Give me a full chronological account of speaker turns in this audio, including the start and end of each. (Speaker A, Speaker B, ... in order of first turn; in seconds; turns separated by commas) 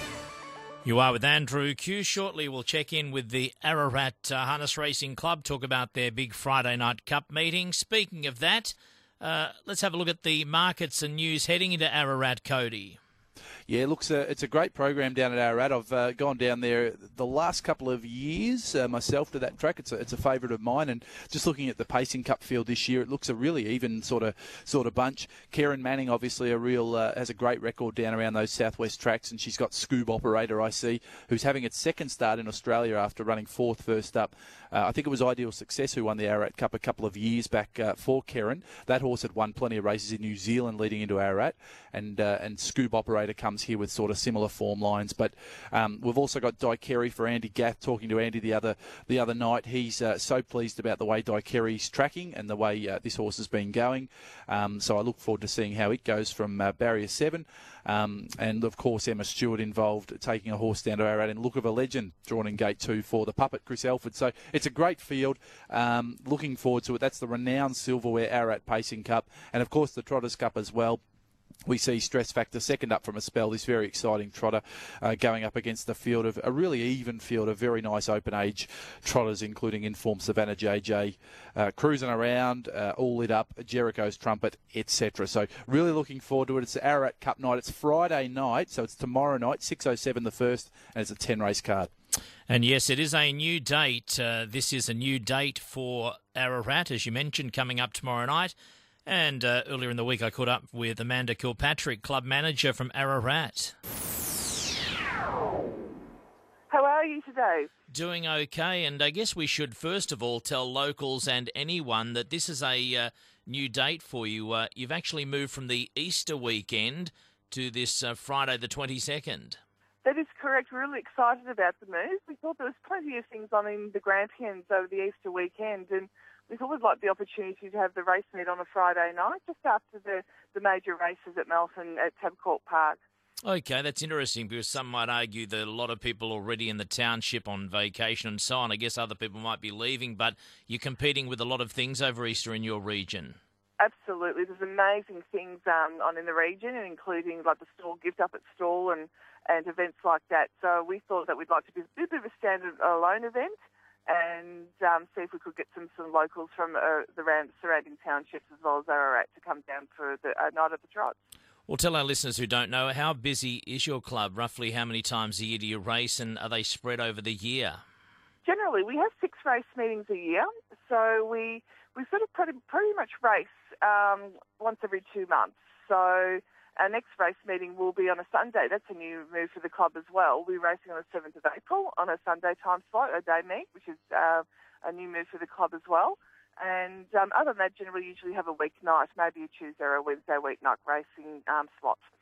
Speaker A: 0.8-13.0, Speaker B: 13.7-71.0, Speaker B: 71.7-91.9, Speaker A: 92.5-98.5, Speaker A: 99.1-103.8, Speaker C: 106.7-107.7, Speaker A: 107.9-119.6, Speaker C: 120.0-133.0, Speaker A: 133.4-143.4, Speaker C: 143.8-161.2, Speaker A: 161.7-167.8, Speaker C: 168.4-192.1